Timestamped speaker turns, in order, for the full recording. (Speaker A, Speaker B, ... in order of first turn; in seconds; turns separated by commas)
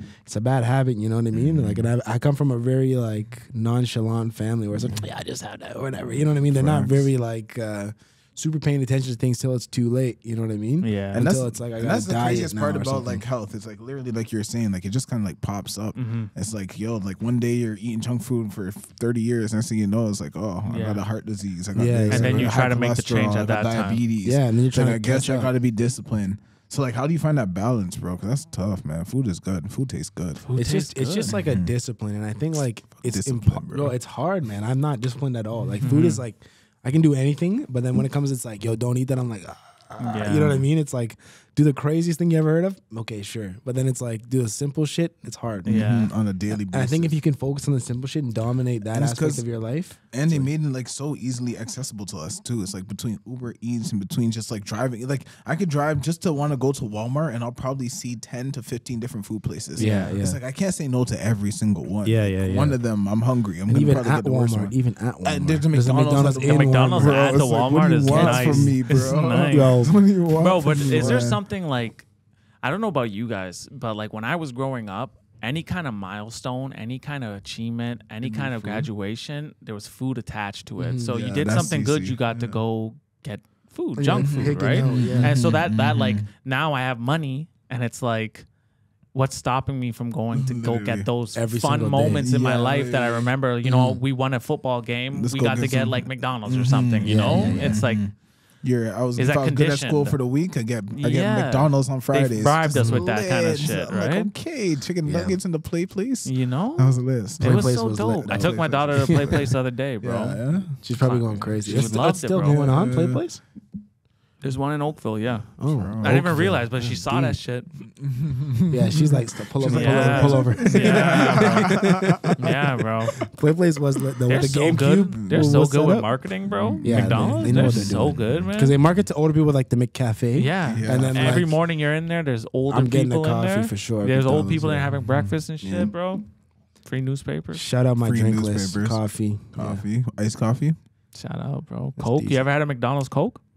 Speaker A: 0.2-13.2, Speaker B: 1.3-1.8, Speaker B: 6.1-7.1, Speaker C: 10.8-11.3, Speaker B: 11.1-30.4, Speaker C: 15.9-16.3, Speaker C: 20.6-21.1, Speaker A: 21.7-22.6, Speaker C: 22.1-24.0, Speaker A: 24.2-25.5, Speaker C: 30.4-31.3, Speaker A: 30.5-45.9, Speaker B: 31.3-31.7, Speaker B: 33.0-33.9, Speaker C: 35.8-36.2, Speaker C: 40.0-40.6, Speaker B: 45.6-47.2, Speaker C: 45.6-46.1, Speaker A: 46.5-50.5, Speaker B: 48.9-49.5, Speaker B: 50.1-71.4, Speaker C: 59.8-60.2, Speaker A: 59.8-60.4, Speaker A: 62.0-62.8, Speaker A: 63.7-67.5, Speaker C: 66.2-72.1, Speaker A: 68.0-68.8, Speaker A: 69.5-70.0, Speaker A: 70.7-71.3, Speaker C: 72.6-88.5, Speaker B: 78.2-78.9, Speaker A: 80.8-81.4, Speaker B: 81.1-82.6, Speaker A: 84.0-85.4, Speaker B: 84.1-86.2, Speaker C: 89.1-98.1, Speaker B: 90.3-91.1, Speaker A: 91.3-92.3, Speaker B: 92.1-94.0, Speaker B: 95.1-107.7, Speaker A: 97.0-97.8, Speaker C: 99.2-100.2, Speaker C: 100.9-104.3, Speaker A: 102.8-103.1, Speaker A: 105.0-105.4, Speaker C: 106.2-110.4, Speaker A: 107.4-109.5, Speaker B: 108.3-110.8, Speaker A: 110.8-113.4, Speaker C: 111.0-112.6, Speaker B: 111.6-113.2, Speaker C: 114.4-117.7, Speaker A: 115.6-117.4, Speaker B: 115.7-116.5, Speaker B: 118.0-122.6, Speaker A: 118.7-122.5, Speaker C: 119.6-123.2, Speaker A: 123.2-126.1, Speaker C: 124.3-128.8, Speaker B: 125.1-125.5, Speaker B: 126.5-128.4, Speaker A: 126.8-131.6, Speaker C: 130.3-136.2, Speaker B: 130.6-131.6, Speaker A: 132.7-135.0, Speaker B: 135.1-135.3, Speaker A: 135.6-135.9, Speaker C: 136.8-137.6, Speaker A: 137.5-139.8, Speaker B: 138.0-140.8, Speaker C: 141.1-143.4, Speaker A: 142.0-142.5